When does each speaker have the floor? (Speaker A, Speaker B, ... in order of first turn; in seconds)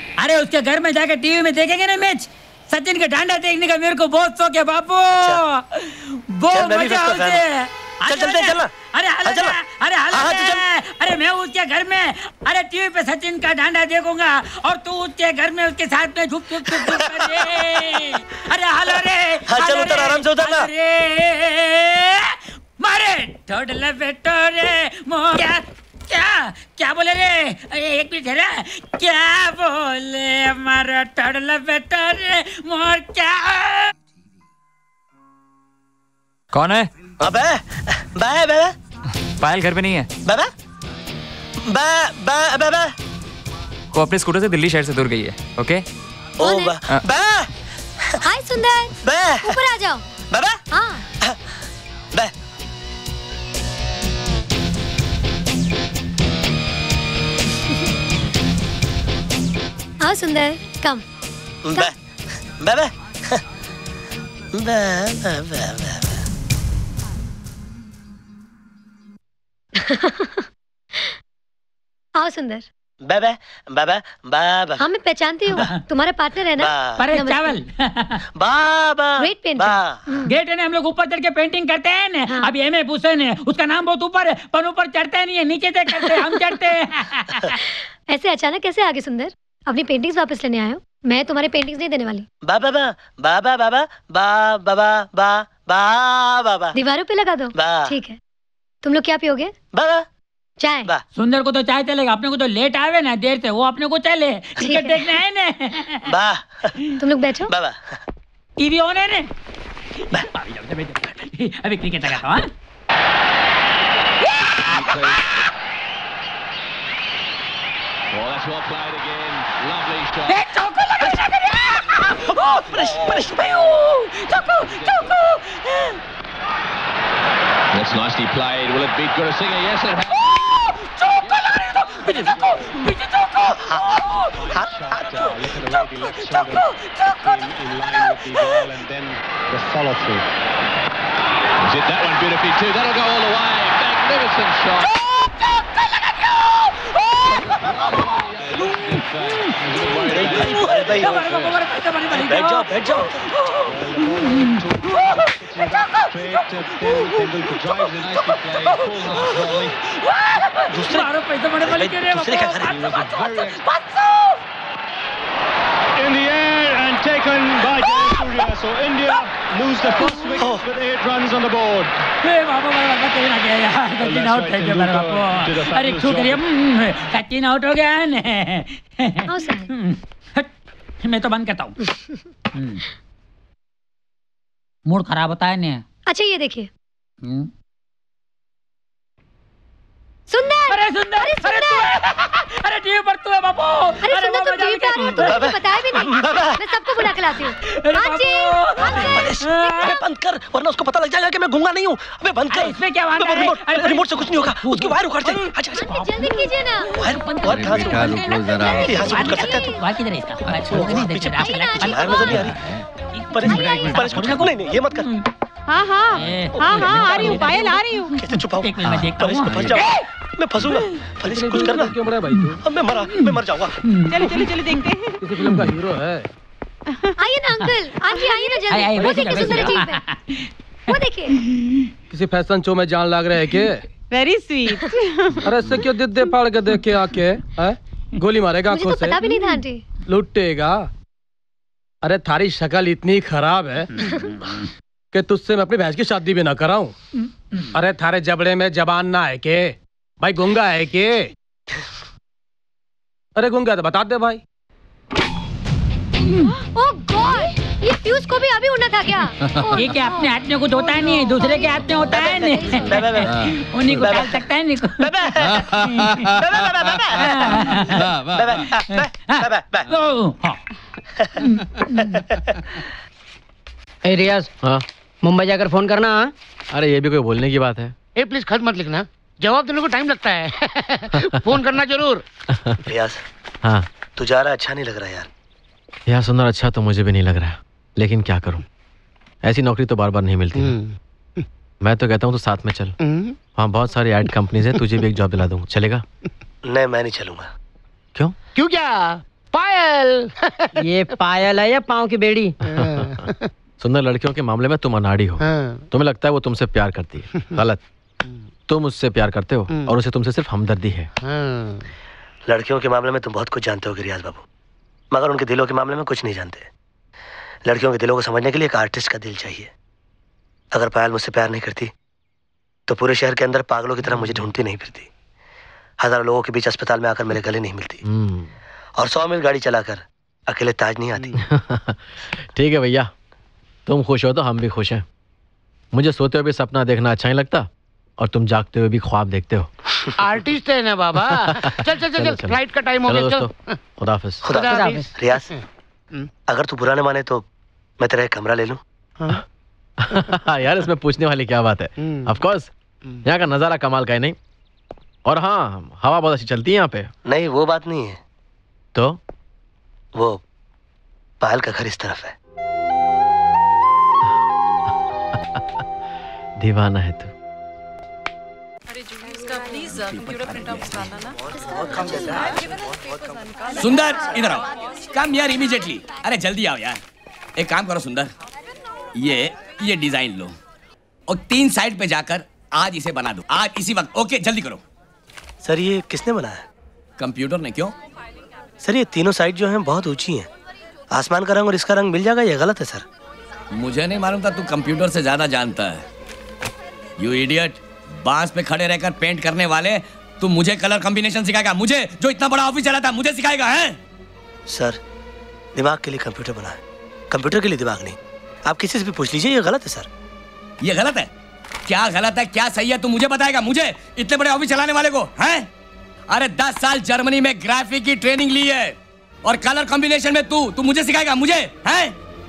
Speaker A: 0.2-33.9, 77.0-78.2, 80.2-87.6, 101.1-106.0, 108.6-109.3, 110.0-112.5, 120.5-121.6, 123.1-125.1, 131.3-133.0, 149.7-153.1, 159.1-159.5, 160.7-163.9, 172.2-180.5, 181.0-181.7, 182.5-182.8, 184.9-185.8, 187.2-187.5, 190.7-195.4, 197.6-200.0, 202.5-204.8, 208.7-212.6, 213.1-215.2, 216.1-217.8, 218.6-219.9, 228.7-230.5, 259.7-266.2, 266.9-268.1, 268.6-270.6
Speaker B: 6.5-7.4, 8.1-8.7, 9.2-9.6, 10.1-10.6, 16.8-17.4, 19.5-20.7, 37.2-38.7, 40.2-40.5, 41.6-42.9, 46.4-47.5, 49.0-49.6, 50.3-50.6, 61.6-62.0, 62.6-63.4, 64.5-66.2, 73.0-74.8, 76.6-77.0, 78.3-80.0, 92.4-96.8, 97.5-97.9, 99.7-100.0, 106.0-106.7, 107.5-108.0, 122.4-123.6, 133.5-134.0, 149.9-151.3, 152.1-153.3, 160.7-161.1, 161.6-163.1, 170.3-170.7, 195.1-196.6, 199.0-199.5, 200.0-205.9, 206.9-209.8, 210.5-212.6, 213.3-215.1, 218.2-221.9, 222.6-223.8, 262.1-263.4, 263.9-264.4, 265.0-265.6, 266.4-267.7, 268.3-269.9, 282.9-283.2, 284.1-285.3, 296.6-297.5, 312.5-314.4, 315.1-316.7, 317.6-319.7, 320.7-321.9, 322.9-325.1, 326.0-328.0, 329.0-331.3, 344.4-345.5, 346.5-347.4, 348.0-348.8, 357.2-358.2, 360.1-360.4, 361.4-362.3, 371.5-372.6, 385.6-386.6, 388.8-390.5, 391.1-393.0, 404.7-405.0, 405.7-410.1
Speaker C: 36.5-36.9, 39.4-40.1, 43.9-45.8
Speaker D: 46.4-46.8, 48.2-50.0, 50.7-51.0, 60.0-61.0, 69.8-70.4, 72.2-72.6, 74.8-77.5, 79.2-80.3, 87.6-92.3, 96.7-98.2, 98.8-99.5, 100.6-100.9, 104.6-105.0, 107.0-107.5, 179.3-179.7, 186.1-186.7, 190.3-191.8, 194.0-199.8, 205.7-206.9, 208.2-208.8, 209.4-209.6, 211.4-212.1, 227.2-230.0, 230.9-231.4, 238.7-239.8, 256.7-259.9
Speaker E: 141.8-144.4, 149.8-150.3, 207.6-208.6
Speaker F: 215.7-218.1, 224.1-225.1, 234.1-235.4
Speaker G: 221.2-222.6, 225.2-226.3, 232.1-233.8, 235.4-239.2, 240.1-240.9, 242.0-243.9, 245.1-246.9, 247.7-251.3, 253.4-254.4
Speaker H: 274.0-274.5, 275.2-276.3, 300.8-302.5, 344.6-345.0
Speaker I: 276.7-277.9, 282.5-282.8, 286.1-288.6, 289.4-290.8, 291.8-292.9, 293.6-296.0, 302.6-307.8, 308.7-311.1, 328.0-328.5, 331.4-333.1, 333.9-335.0, 335.9-337.7, 338.2-339.7, 341.5-344.4, 350.0-352.7, 353.2-354.4, 355.2-357.1, 365.3-365.6, 366.6-367.3
Speaker J: 278.2-282.2, 290.6-290.9, 293.0-293.3, 298.5-300.8, 302.6-303.5, 305.4-305.8, 311.2-311.8, 340.2-343.8, 344.5-345.6, 352.0-352.3
Speaker K: 370.4-370.8, 373.8-377.0, 377.6-378.3, 379.1-380.5, 381.3-384.8, 387.2-387.9, 393.7-396.0, 397.2-403.9, 410.8-411.3, 411.9-415.7, 416.3-422.1